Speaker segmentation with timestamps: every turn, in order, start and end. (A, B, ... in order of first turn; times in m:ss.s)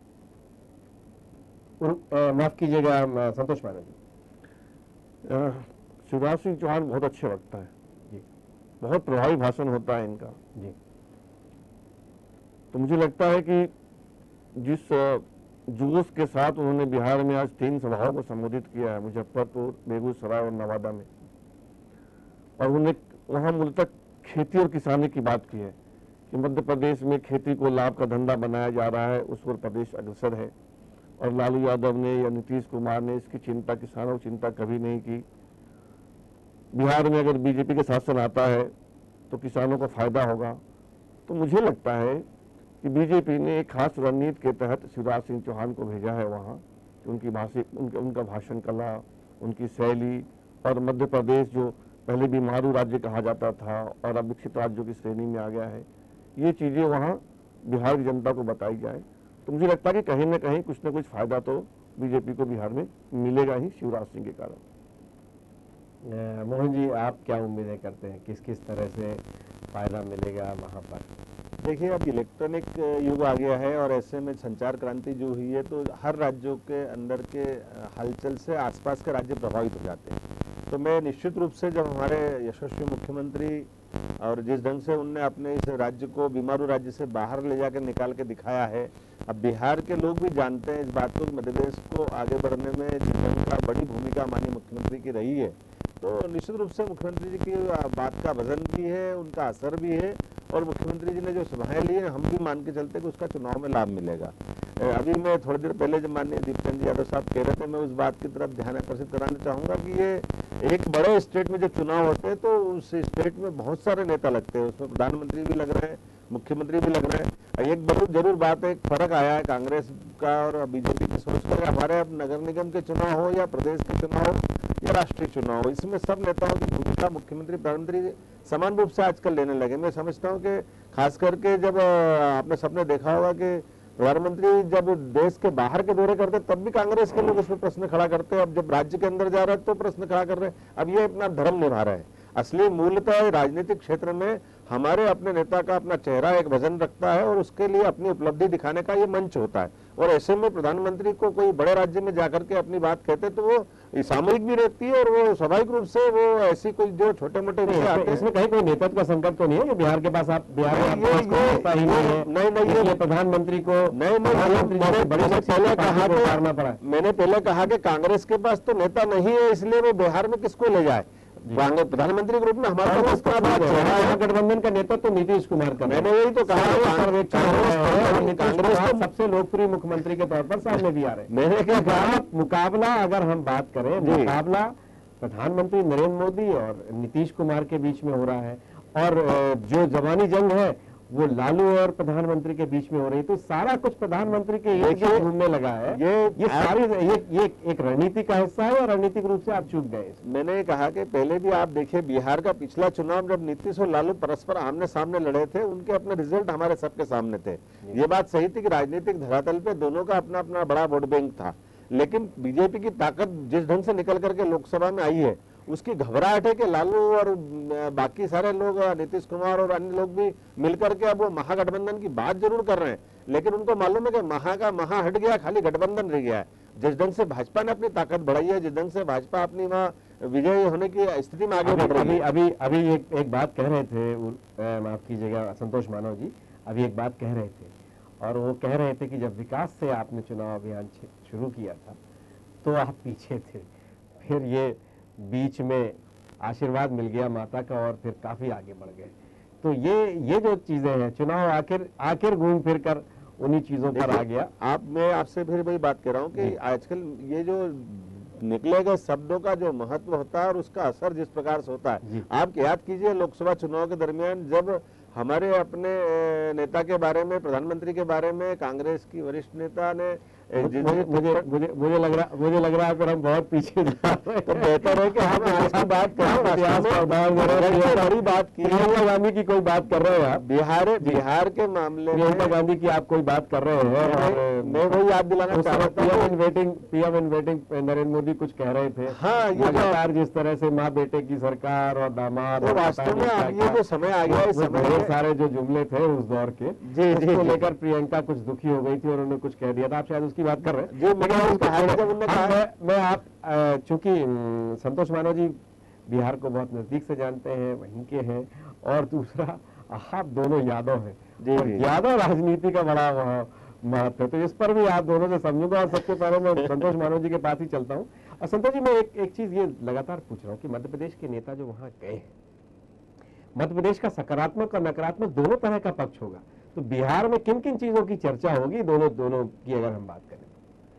0:01.8-0:04.0 A
0:05.3-0:07.7 B
0:08.8-0:10.4 B
0:12.7-0:13.7 B
0:14.6-0:21.0 B
0:22.6-0:25.7 B
0:26.3-0:30.5 B
0:31.2-0:35.2 B
0:36.7-0:38.7 B
0:39.3-0:40.6 B
0:41.3-0:42.2 B
0:42.8-0:55.8 B
0:56.4-1:04.6 B
1:06.0-1:11.1 A
1:11.6-1:20.2 C
1:20.7-1:23.7 C
1:24.2-2:38.2 C
2:37.6-2:46.8 A
2:40.7-2:43.0 C
2:43.9-2:54.2 C
2:52.8-3:20.2 A
2:55.8-2:59.1 C
3:01.3-3:02.2 C
3:04.0-3:04.4 C
3:14.7-3:15.3 C
3:15.9-3:16.8 C
3:20.2-3:52.2 C
3:51.6-4:02.0 A
4:02.6-4:14.5 A
4:13.9-4:31.4 C
4:30.6-4:40.4 A
4:34.4-4:38.9 C
4:40.4-4:42.5 C
4:42.1-5:22.3 A
4:43.8-4:46.3 C
4:49.1-4:50.0 C
4:52.6-4:55.1 C
4:56.8-4:57.6 C
5:00.9-5:02.6 C
5:11.4-5:11.9 C
5:23.6-5:30.6 A